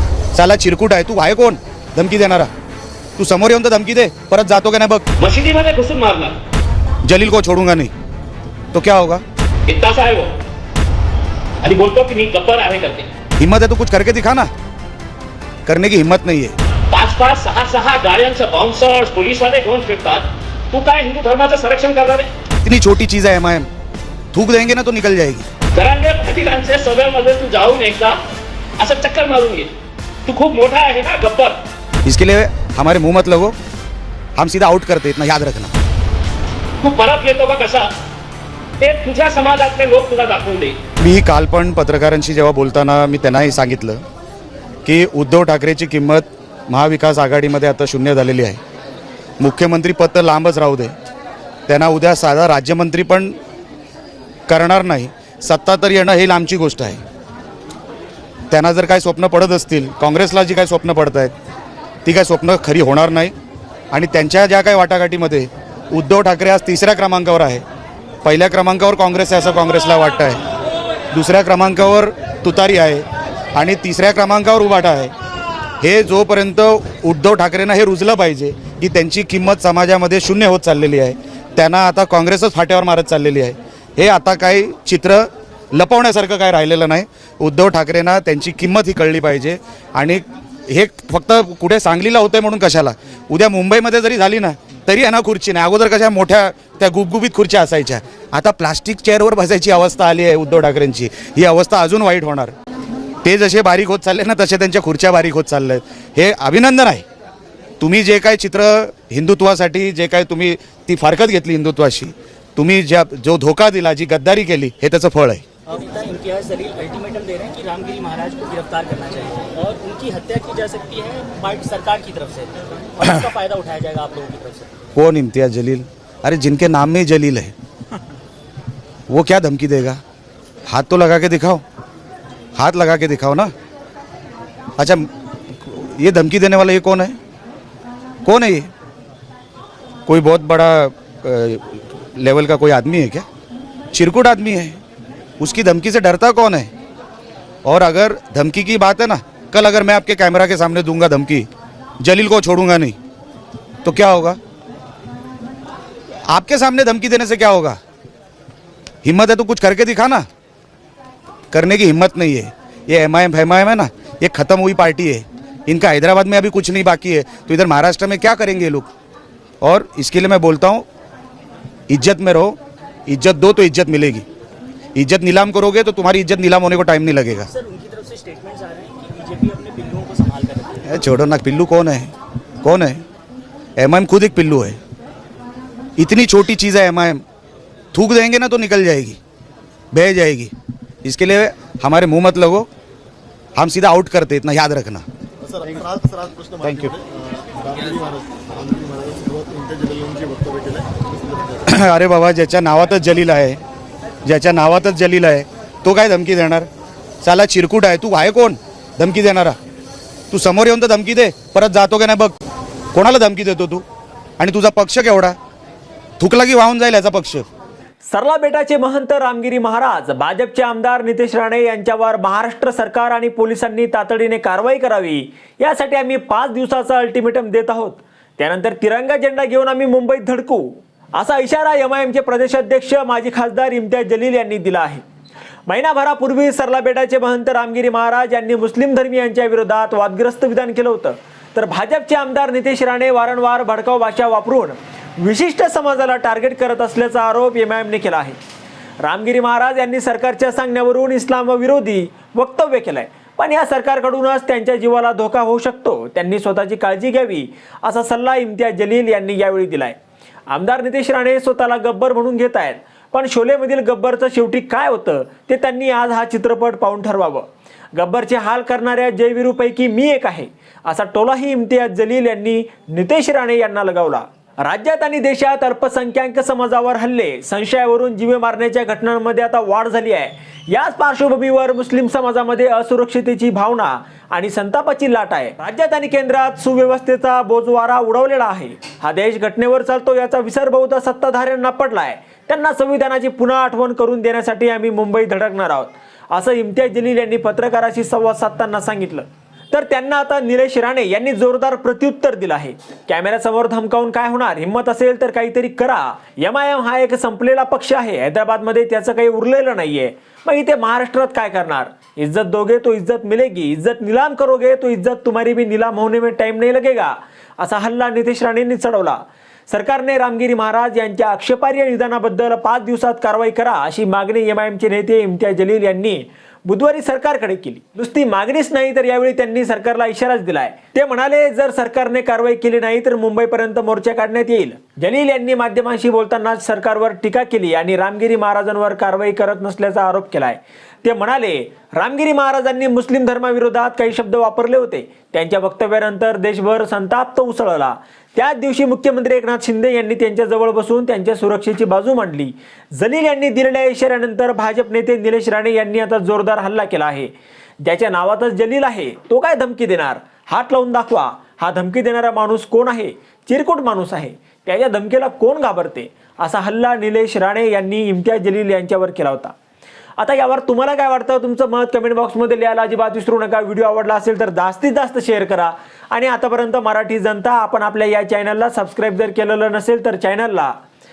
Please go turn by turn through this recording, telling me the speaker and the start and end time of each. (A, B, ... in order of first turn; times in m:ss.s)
0:00.3-0:02.5 A
0:03.2-0:05.0 A
0:05.2-0:06.4 B
0:07.0-0:07.9 A
0:08.7-0:09.2 A
0:09.7-0:10.4 B
0:11.6-0:13.1 B
0:13.4-0:14.5 A
0:15.7-0:16.6 A
0:16.9-0:22.3 B
0:22.6-0:23.7 A
0:24.3-0:25.4 A
0:25.8-0:28.2 B
0:28.8-0:29.7 B
0:30.3-0:31.6 B
0:32.0-0:33.6 A
0:34.4-0:35.7 A
0:36.8-0:37.9 B
0:38.8-0:40.8 B
0:41.0-0:44.0 A
0:44.8-0:48.6 A
0:49.4-0:51.0 A
0:51.7-0:53.4 A
0:54.5-0:57.0 A
0:58.5-1:01.3 A
1:02.0-1:03.3 A
1:03.9-1:07.6 A
1:08.2-1:10.4 A
1:11.1-1:15.1 A
1:15.8-1:42.5 A
1:43.2-1:47.0 A
1:47.8-1:55.4 A
1:55.7-2:04.8 C
2:05.0-2:07.5 A
2:09.1-2:10.0 A
2:10.7-2:11.6 A
2:12.6-2:13.5 A
2:14.8-2:17.2 A
2:18.2-2:18.7 A
2:20.1-2:23.2 A
2:23.9-2:24.8 A
2:25.4-2:26.7 A
2:27.6-2:31.5 A
2:32.0-2:33.0 A
2:33.8-2:34.4 A
2:36.3-2:37.8 A
2:39.0-2:40.2 A
2:41.5-2:48.9 A
2:49.6-2:50.9 A
2:51.9-2:54.2 A
2:55.0-2:57.5 A
2:57.4-3:00.9 C
3:00.8-3:03.0 A
3:03.8-3:04.8 A
3:06.0-3:07.2 A
3:07.9-3:09.2 A
3:09.9-3:10.5 A
3:11.0-3:12.7 A
3:13.6-3:15.0 A
3:15.5-3:21.6 D
3:16.6-3:17.0 A
3:21.7-3:23.6 A
3:24.2-3:26.7 A
3:27.2-3:29.6 A
3:30.3-3:32.3 A
3:32.9-3:33.8 A
3:34.4-3:35.4 A
3:36.2-3:37.4 A
3:38.1-3:55.0 E
3:55.7-4:08.4 E
4:09.0-4:20.0 E
4:20.5-5:57.3 E
5:57.8-6:09.5 E
6:10.2-6:20.8 E